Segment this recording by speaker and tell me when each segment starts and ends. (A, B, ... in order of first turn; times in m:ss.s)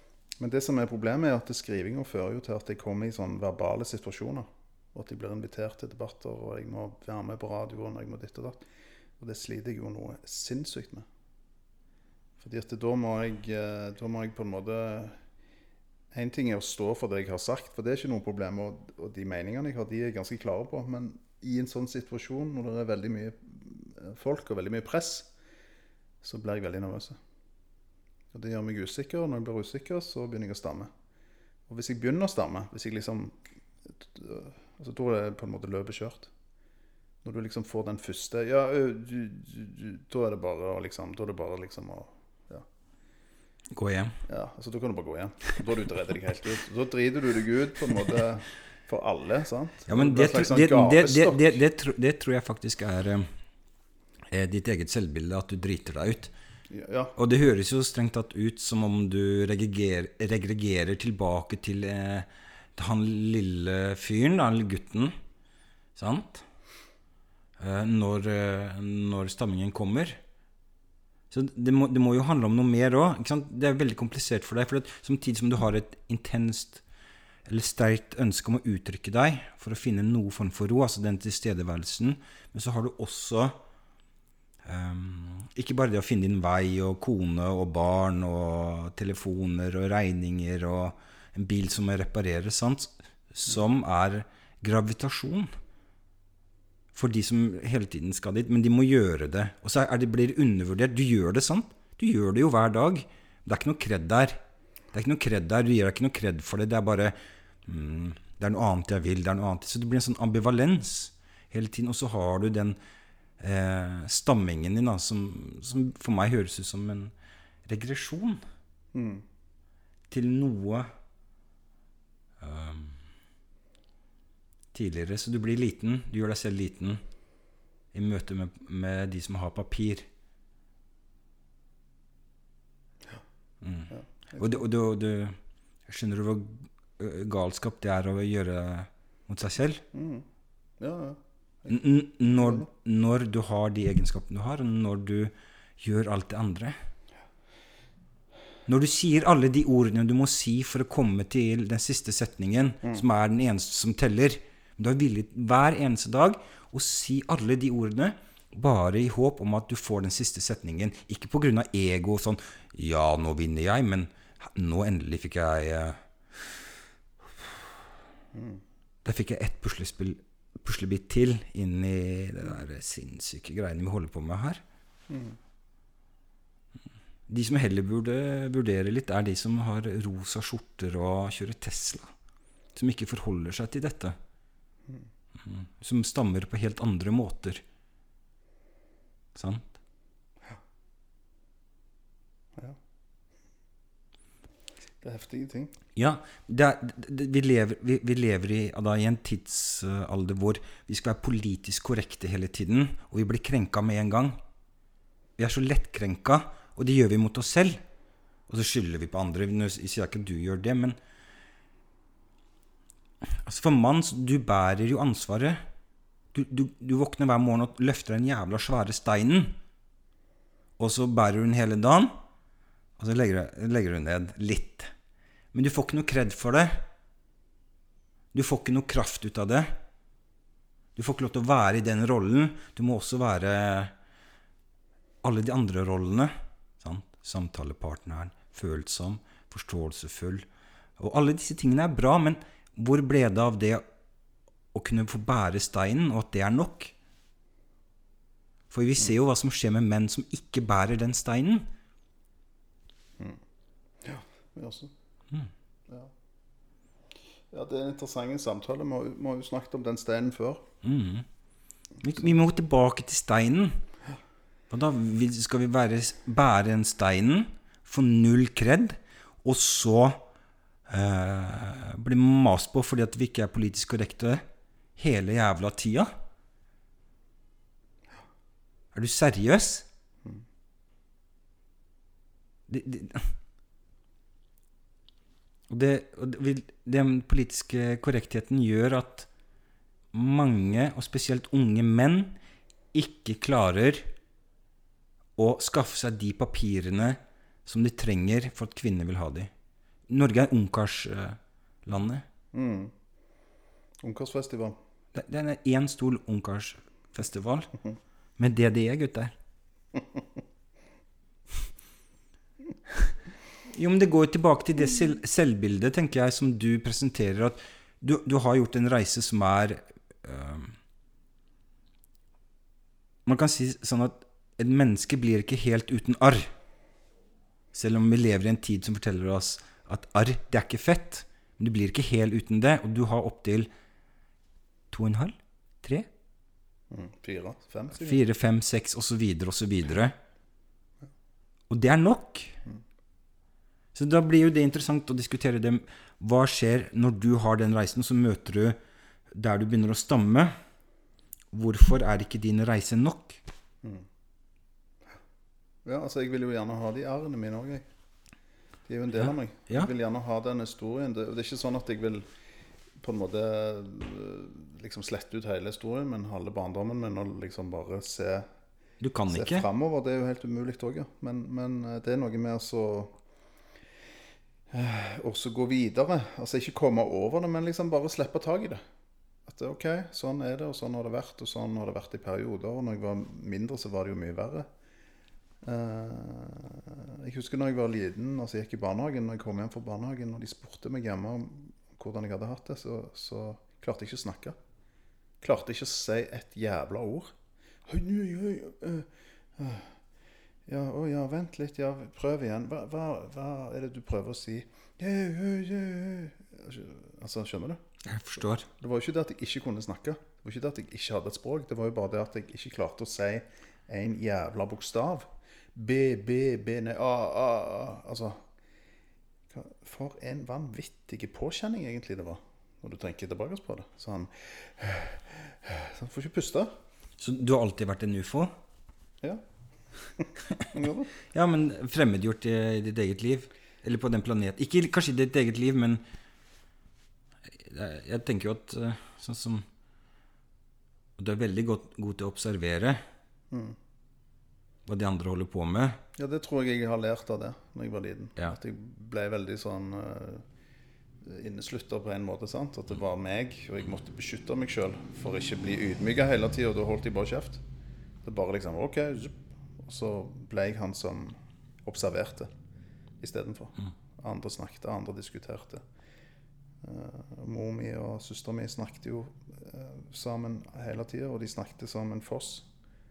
0:00.4-0:08.6 A
0:09.2-0:11.0 A
0:12.4-0:15.2 A
0:16.1-0:25.3 A
0:26.2-0:27.2 A
0:28.3-0:30.9 A
0:31.7-0:33.4 A
0:33.9-0:36.3 A
0:37.2-0:42.6 A
0:43.7-0:44.2 B
0:44.2-0:51.6 A
0:49.9-0:53.3 B
0:54.3-0:56.3 B
0:56.7-0:57.1 A
0:57.2-1:05.1 B
1:06.0-1:06.4 B
1:07.6-1:10.2 B
1:11.3-1:16.8 B
1:17.4-1:23.6 B
1:24.6-1:35.5 B
1:36.9-1:44.4 B
1:44.9-1:52.8 B
1:53.4-1:57.1 B
1:57.6-1:58.4 B
1:58.9-1:59.2 A
2:00.1-2:00.9 B
2:02.4-2:03.0 B
2:04.7-2:07.0 B
2:07.9-2:10.1 B
2:13.6-2:19.8 B
2:13.9-2:14.7 A
2:19.9-2:20.2 A
2:20.8-2:22.7 A
2:21.7-2:26.7 B
2:28.7-2:46.6 B
2:47.2-2:47.6 B
2:48.3-2:48.6 A
2:49.0-2:54.6 B
2:55.1-2:55.4 A
2:57.3-3:02.1 B
3:02.7-3:04.2 B
3:05.4-3:07.6 B
3:09.3-3:09.7 B
3:15.0-3:15.7 A
3:16.0-3:24.4 B
3:25.4-3:27.8 B
3:28.5-3:31.0 B
3:33.2-3:35.6 B
3:36.3-3:39.6 B
3:40.8-3:42.1 B
3:43.0-3:44.9 B
3:45.5-3:46.9 B
3:48.3-3:49.8 B
3:51.0-3:53.9 B
3:55.2-4:00.5 B
4:01.0-4:03.8 B
4:04.7-4:06.9 B
4:08.7-4:11.7 B
4:14.0-4:14.9 A
4:17.5-4:20.6 A
4:20.8-4:21.2 B
4:22.0-4:23.8 B
4:24.7-4:30.3 B
4:30.9-4:34.4 B
4:35.0-4:36.1 B
4:38.9-4:39.9 B
4:42.7-4:43.4 B
4:45.7-4:49.3 B
4:50.1-4:52.4 B
4:52.9-4:54.1 B
4:55.4-4:59.5 B
5:00.1-5:02.2 B
5:02.5-5:02.9 A
5:04.0-5:04.8 A
5:05.1-5:07.7 B
5:08.4-5:09.3 B
5:13.7-5:20.8 B
5:23.2-5:26.5 B
5:27.7-5:33.7 B
5:34.9-5:36.1 B
5:36.9-5:38.2 A
5:37.9-5:40.1 B
5:41.7-5:42.6 B
5:43.9-5:48.8 B
5:49.3-5:50.5 B
5:51.5-5:53.4 B
5:55.8-5:57.8 A
5:58.8-6:02.2 A
6:03.0-6:08.5 A
6:09.0-6:09.6 B
6:09.3-6:13.2 A
6:14.7-6:18.8 A
6:19.5-6:24.7 A
6:25.6-6:34.6 A
6:35.4-6:37.3 A
6:37.9-6:39.9 A
6:40.7-6:47.8 A
6:48.0-6:48.7 B
6:48.7-6:58.4 A
6:59.5-7:06.7 A
7:07.2-7:08.5 B
7:10.1-7:11.1 A
7:11.3-7:16.0 B
7:17.5-7:19.6 B
7:21.2-7:23.0 B
7:23.5-7:23.8 A
7:24.8-7:26.0 B
7:26.2-7:30.4 A
7:31.2-7:37.6 A
7:38.2-7:42.5 A
7:43.2-7:45.8 A
7:46.8-7:52.7 A